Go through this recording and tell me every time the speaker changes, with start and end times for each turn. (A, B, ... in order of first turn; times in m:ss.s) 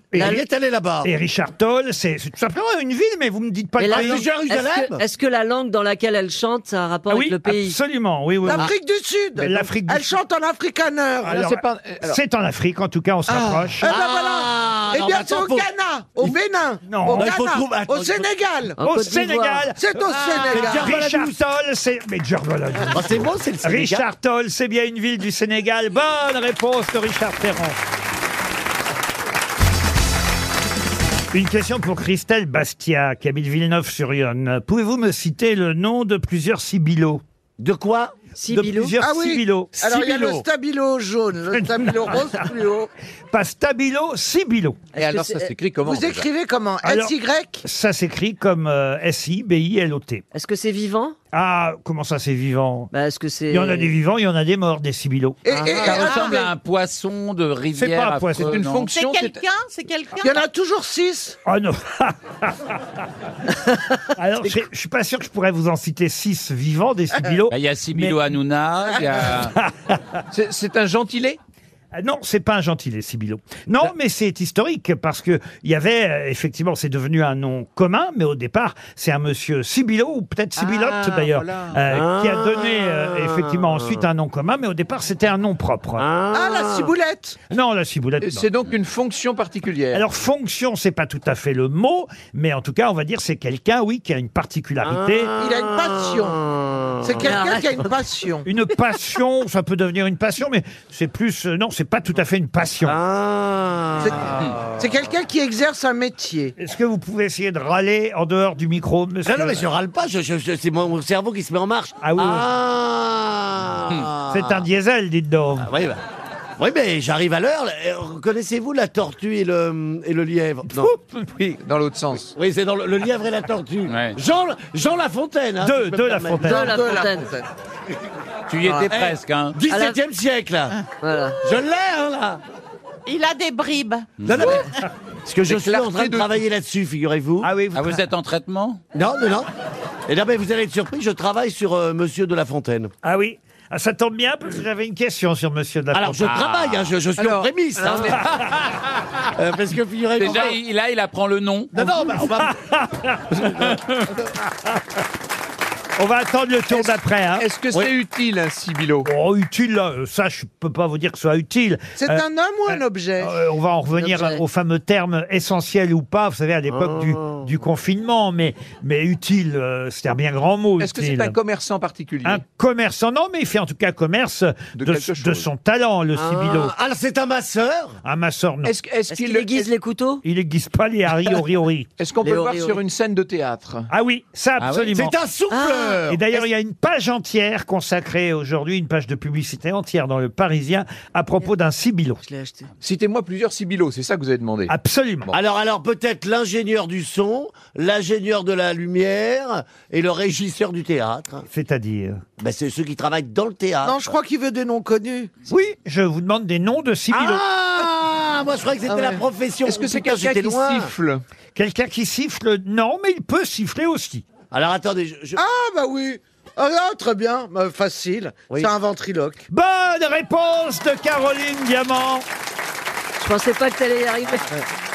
0:00.1-0:01.1 A
0:00.1-0:00.4 B
0:01.0-0:04.2 B
0:03.8-0:07.8 C
0:03.9-0:05.0 A
0:07.1-0:08.7 B
0:08.5-0:11.4 D
0:09.4-0:10.2 B
0:09.4-0:09.7 E
0:11.3-0:12.2 E
0:11.3-0:13.9 B
0:13.3-0:13.7 E
0:13.8-0:18.8 D
0:13.8-0:16.4 A
0:16.9-0:17.3 B
0:17.1-0:18.3 A
0:18.8-0:19.7 C
0:18.8-0:27.8 B
0:19.8-0:21.0 D
0:20.3-0:21.4 A
0:22.9-0:24.0 A
0:31.3-0:37.2 B
0:37.6-0:38.1 A
0:38.4-0:39.0 C
0:38.5-0:39.9 B
0:39.0-0:42.9 D
0:39.8-0:40.4 A
0:41.5-0:42.4 B
0:43.3-0:44.9 B
0:44.9-0:46.2 E
0:45.0-0:45.5 C
0:45.8-0:47.6 D
0:46.8-0:50.2 B
0:50.3-0:51.2 C
0:51.3-0:52.9 B
0:52.9-0:53.9 C
0:53.5-0:55.4 B
0:55.4-0:56.5 D
0:55.8-0:58.9 F
0:57.7-0:58.6 B
0:58.4-0:59.4 E
0:58.8-1:00.5 G
1:00.2-1:01.4 D
1:01.4-1:02.8 B
1:04.2-1:08.2 B
1:07.5-1:09.5 F
1:09.3-1:10.0 B
1:10.3-1:11.4 E
1:11.9-1:26.0 B
1:20.6-1:21.8 E
1:21.9-1:24.0 A
1:26.0-1:26.9 A
1:26.3-1:27.4 D
1:27.5-1:28.5 B
1:28.2-1:30.0 E
1:29.9-1:35.3 B
1:34.8-1:37.4 A
1:35.4-1:36.4 D
1:37.0-1:38.5 D
1:37.2-1:38.0 C
1:38.4-1:43.0 B
1:42.8-1:44.9 A
1:44.0-1:46.6 D
1:46.6-1:49.6 B
1:49.2-1:54.6 A
1:52.0-1:52.5 B
1:54.3-1:55.7 B
1:55.6-1:56.0 A
1:56.6-2:00.9 A
2:00.7-2:01.3 B
2:01.4-2:02.3 E
2:02.4-2:06.8 A
2:03.9-2:04.2 F
2:05.6-2:06.8 B
2:06.5-2:07.3 C
2:06.5-2:07.5 D
2:08.5-2:09.6 F
2:08.6-2:08.9 D
2:08.9-2:10.8 A
2:09.7-2:10.0 C
2:11.0-2:11.4 C
2:11.4-2:12.4 A
2:13.1-2:14.6 G
2:14.2-2:14.6 F
2:14.2-2:14.7 A
2:15.3-2:17.5 A
2:15.5-2:16.3 E
2:17.4-2:18.0 B
2:17.8-2:18.8 F
2:18.9-2:19.5 A
2:20.1-2:22.9 A
2:23.0-2:26.4 B
2:25.9-2:28.2 A
2:26.2-2:26.9 F
2:27.2-2:28.2 E
2:29.3-2:30.6 A
2:30.2-2:31.7 F
2:31.7-2:32.5 A
2:31.8-2:33.8 B
2:33.4-2:33.8 A
2:36.0-2:37.5 B
2:37.4-2:39.1 E
2:39.0-2:51.4 B
2:42.0-2:43.4 D
2:44.0-2:44.4 C
2:46.7-2:47.5 A
2:50.8-2:52.4 E
2:52.2-2:56.7 B
2:54.8-2:55.5 E
2:56.2-2:58.0 A
2:58.0-2:58.7 B
2:58.6-2:59.7 E
2:59.1-3:00.2 C
3:00.2-3:01.9 B
3:02.0-3:03.9 E
3:02.2-3:02.8 C
3:03.9-3:05.1 B
3:04.6-3:04.9 F
3:04.9-3:06.3 A
3:05.5-3:06.4 C
3:06.1-3:12.2 B
3:12.2-3:12.7 C
3:12.8-3:14.7 E
3:14.7-3:15.3 B
3:15.3-3:21.5 A
3:21.5-3:22.2 B
3:22.4-3:24.0 A
3:23.8-3:25.3 D
3:25.5-3:27.4 B
3:27.1-3:30.9 A
3:28.9-3:29.2 D
3:29.6-3:31.2 E
3:31.6-3:34.2 B
3:34.5-3:35.4 A
3:35.4-3:39.5 D
3:39.5-3:42.3 B
3:43.2-3:44.6 C